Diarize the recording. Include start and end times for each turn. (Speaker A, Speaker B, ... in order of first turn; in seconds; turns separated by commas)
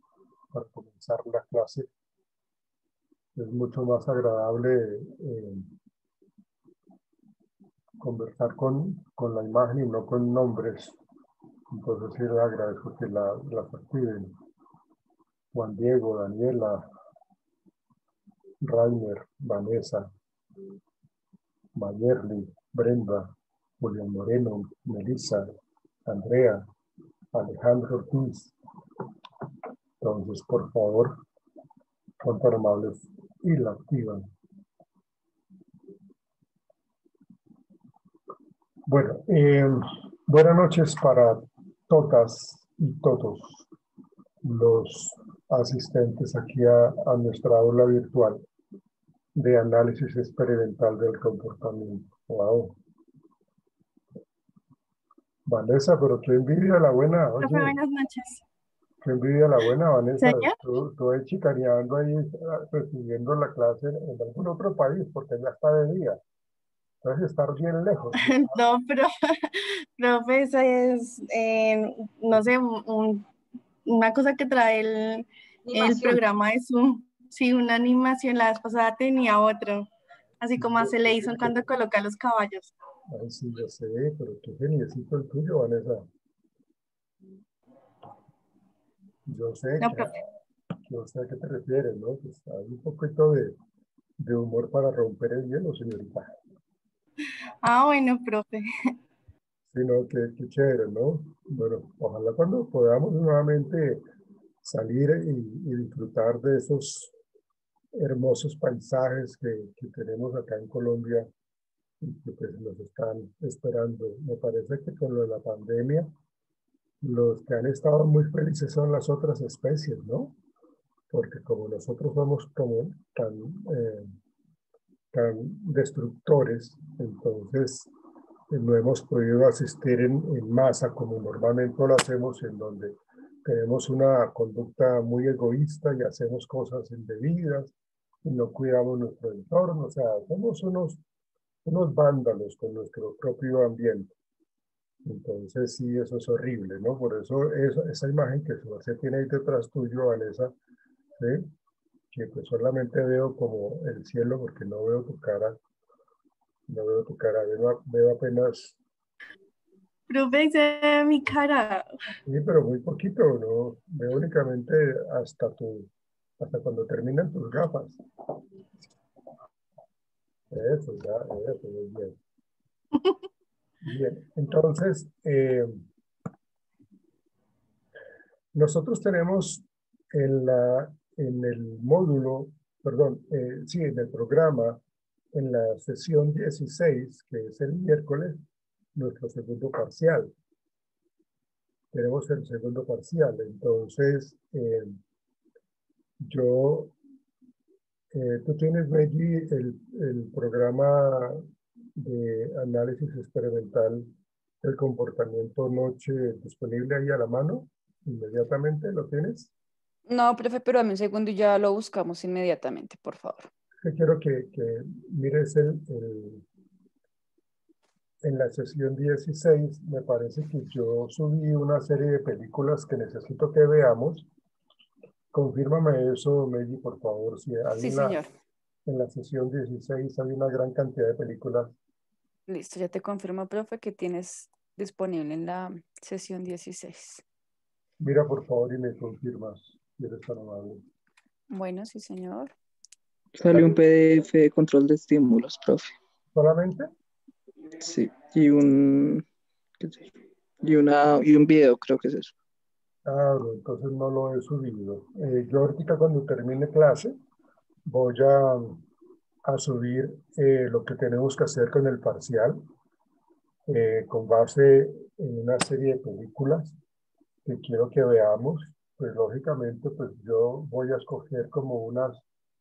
Speaker A: 0.5-1.9, Speaker A: 3.3-5.7, Speaker A: 8.0-11.0, Speaker A: 11.7-14.3, Speaker A: 15.5-16.9, Speaker A: 18.6-20.1, Speaker A: 21.8-25.5, Speaker A: 26.1-26.6, Speaker A: 27.3-28.5, Speaker A: 30.0-31.2, Speaker A: 32.2-34.3, Speaker A: 38.9-43.7, Speaker A: 44.4-48.4, Speaker A: 49.3-52.7, Speaker A: 55.5-57.8, Speaker B: 57.4-58.4, Speaker A: 59.0-66.2, Speaker B: 60.2-60.5, Speaker A: 67.0-68.6, Speaker B: 68.2-73.3, Speaker B: 73.8-79.9, Speaker C: 75.7-76.2, Speaker B: 80.4-82.7, Speaker A: 80.6-81.6, Speaker A: 83.1-86.1, Speaker A: 89.3-90.2, Speaker B: 89.8-90.2, Speaker A: 90.8-93.5, Speaker A: 94.2-96.3, Speaker B: 97.6-98.9, Speaker A: 99.7-104.0, Speaker A: 104.6-107.1, Speaker A: 107.9-111.3, Speaker A: 112.0-116.1, Speaker A: 117.0-120.3, Speaker A: 121.1-124.1, Speaker A: 125.1-127.9, Speaker A: 128.5-141.0, Speaker A: 141.6-144.1, Speaker A: 145.0-150.5, Speaker A: 151.2-151.5, Speaker A: 152.1-155.6, Speaker A: 156.7-158.8, Speaker B: 160.1-161.9, Speaker A: 162.2-168.0, Speaker A: 170.5-172.2, Speaker A: 173.8-175.8, Speaker A: 178.5-184.8, Speaker A: 185.3-188.4, Speaker A: 188.9-190.3, Speaker A: 191.9-195.0, Speaker A: 196.2-196.9, Speaker A: 198.1-201.4, Speaker A: 201.9-204.1, Speaker A: 204.6-209.5, Speaker C: 210.1-213.5, Speaker A: 213.8-216.4, Speaker A: 218.2-224.3, Speaker A: 225.3-228.2, Speaker C: 227.7-228.3, Speaker A: 228.8-231.8, Speaker C: 232.5-237.2, Speaker A: 238.0-240.8, Speaker C: 241.5-242.5, Speaker D: 243.3-245.9, Speaker A: 246.3-246.9, Speaker D: 247.8-249.2, Speaker D: 249.8-252.3, Speaker A: 253.1-257.1, Speaker A: 257.9-258.8, Speaker A: 259.4-262.6, Speaker A: 263.6-266.7, Speaker A: 267.4-272.2